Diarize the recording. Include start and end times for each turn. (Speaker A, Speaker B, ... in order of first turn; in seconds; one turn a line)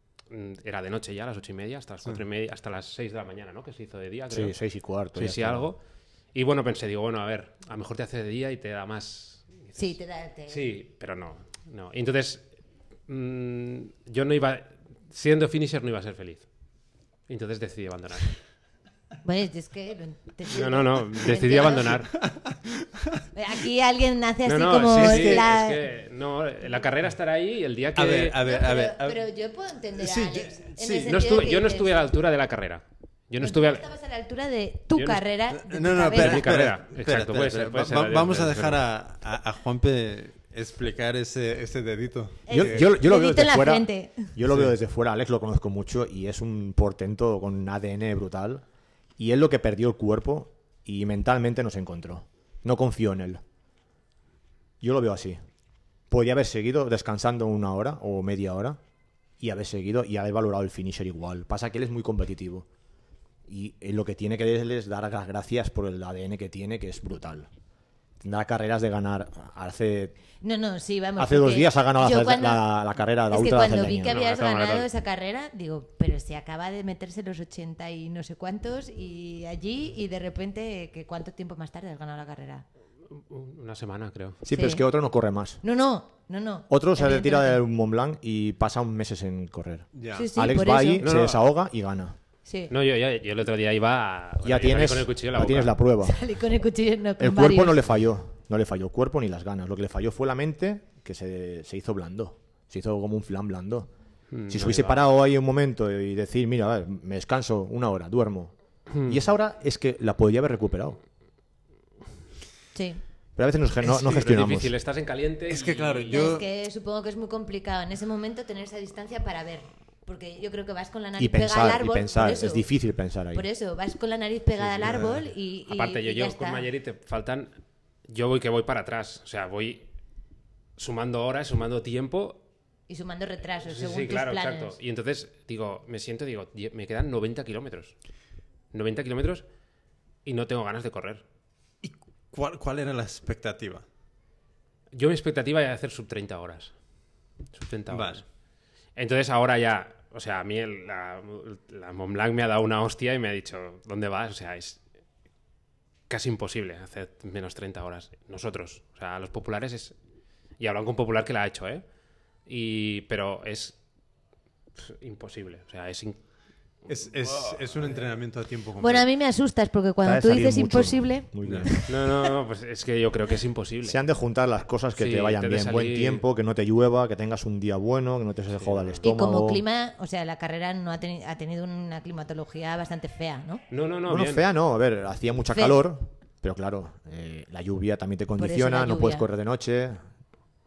Speaker A: 0.3-4.6
Speaker B: 4.3-5.7
Speaker A: 5.1-5.8
Speaker A: 6.3-10.0
Speaker C: 9.8-10.7
Speaker A: 10.5-12.4
Speaker A: 13.1-16.5
Speaker A: 17.3-18.4
Speaker C: 19.2-22.0
Speaker A: 20.5-22.1
Speaker D: 22.2-23.2
Speaker C: 23.3-25.9
Speaker A: 24.4-28.4
Speaker D: 24.9-25.5
Speaker D: 27.9-29.2
Speaker C: 28.4-32.0
Speaker D: 30.0-31.2
Speaker A: 31.1-33.9
Speaker C: 33.4-36.5
Speaker A: 34.9-35.3
Speaker D: 35.5-42.9
Speaker A: 36.0-38.8
Speaker C: 42.5-44.3
Speaker B: 42.5-48.6
Speaker B: 49.2-53.4
Speaker B: 54.8-55.4
Speaker B: 56.1-58.8
Speaker B: 59.4-62.7
Speaker B: 63.5-67.5
Speaker B: 68.2-70.2
Speaker C: 70.4-72.7
Speaker B: 71.2-74.2
Speaker C: 73.3-82.7
Speaker A: 73.9-74.9
Speaker A: 83.1-84.4
Speaker B: 84.4-85.6
Speaker C: 84.5-84.8
Speaker C: 85.6-87.6
Speaker B: 86.7-92.2
Speaker D: 89.9-90.3
Speaker C: 90.1-91.1
Speaker A: 91.0-91.4
Speaker C: 92.5-92.7
Speaker A: 92.7-95.8
Speaker B: 94.4-96.2
Speaker C: 96.0-97.8
Speaker B: 97.2-103.9
Speaker A: 104.3-105.0
Speaker B: 104.5-108.5
Speaker A: 108.9-109.2
Speaker B: 109.0-111.0
Speaker C: 112.8-113.0
Speaker B: 113.4-114.7
Speaker A: 113.8-116.4
Speaker D: 115.5-116.5
Speaker C: 116.1-122.7
Speaker B: 121.2-123.5
Speaker C: 123.3-126.7
Speaker D: 124.8-125.2
Speaker A: 125.7-127.5
Speaker A: 128.1-129.9
Speaker A: 130.8-132.4
Speaker C: 132.9-134.8
Speaker A: 133.7-137.9
Speaker A: 138.7-139.5
Speaker A: 140.2-141.2
Speaker D: 141.8-143.8
Speaker A: 144.9-146.7
Speaker A: 147.5-148.2
Speaker D: 147.9-148.2
Speaker A: 149.0-154.8
Speaker A: 156.1-159.9
Speaker A: 160.6-161.8
Speaker A: 162.5-163.8
Speaker A: 164.8-166.2
Speaker D: 166.9-169.1
Speaker A: 167.3-167.6
Speaker C: 168.8-171.9
Speaker B: 170.0-171.8
Speaker D: 171.4-171.7
Speaker A: 171.9-174.0
Speaker B: 173.8-179.6
Speaker A: 175.0-176.2
Speaker A: 178.6-179.0
Speaker C: 179.0-183.6
Speaker A: 183.7-184.5
Speaker B: 184.1-190.1
Speaker C: 185.5-185.8
Speaker C: 188.4-189.3